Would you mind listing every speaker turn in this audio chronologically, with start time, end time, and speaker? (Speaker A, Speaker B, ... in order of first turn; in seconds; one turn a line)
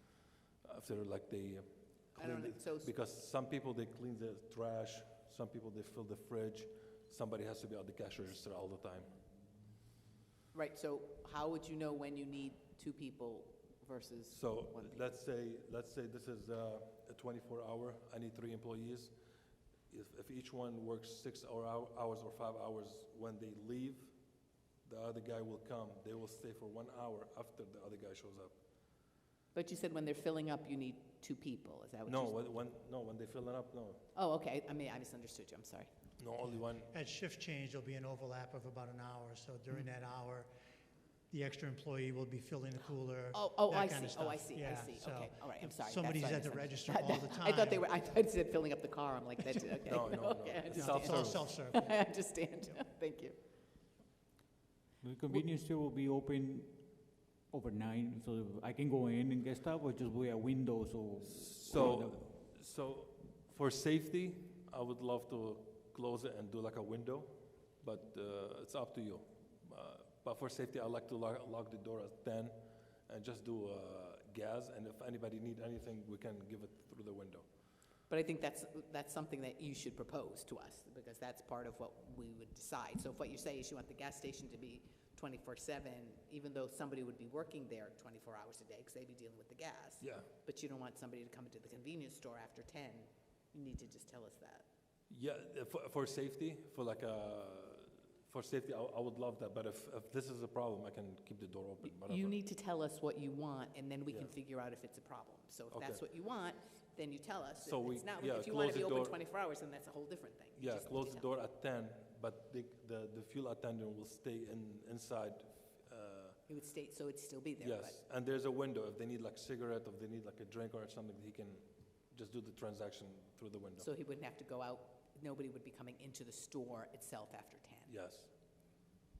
Speaker A: 0.6-9.1
Speaker B: 2.2-2.9
Speaker B: 10.5-15.0
Speaker A: 14.3-19.1
Speaker A: 19.9-24.1
Speaker A: 24.8-28.6
Speaker B: 29.5-32.5
Speaker A: 32.1-34.0
Speaker B: 34.1-35.9
Speaker A: 36.2-36.9
Speaker C: 36.8-40.5
Speaker C: 41.3-48.0
Speaker B: 43.3-53.4
Speaker A: 49.9-51.5
Speaker C: 50.7-52.1
Speaker D: 55.0-62.3
Speaker A: 61.4-77.5
Speaker B: 78.1-94.7
Speaker A: 90.0-90.3
Speaker A: 95.1-102.4
Speaker B: 102.0-111.3
Speaker A: 105.7-106.0
Speaker A: 107.6-109.2
Speaker A: 110.6-116.4
Speaker B: 116.5-118.0
Speaker A: 117.6-123.9
Speaker B: 123.8-127.9
Speaker A: 127.9-128.3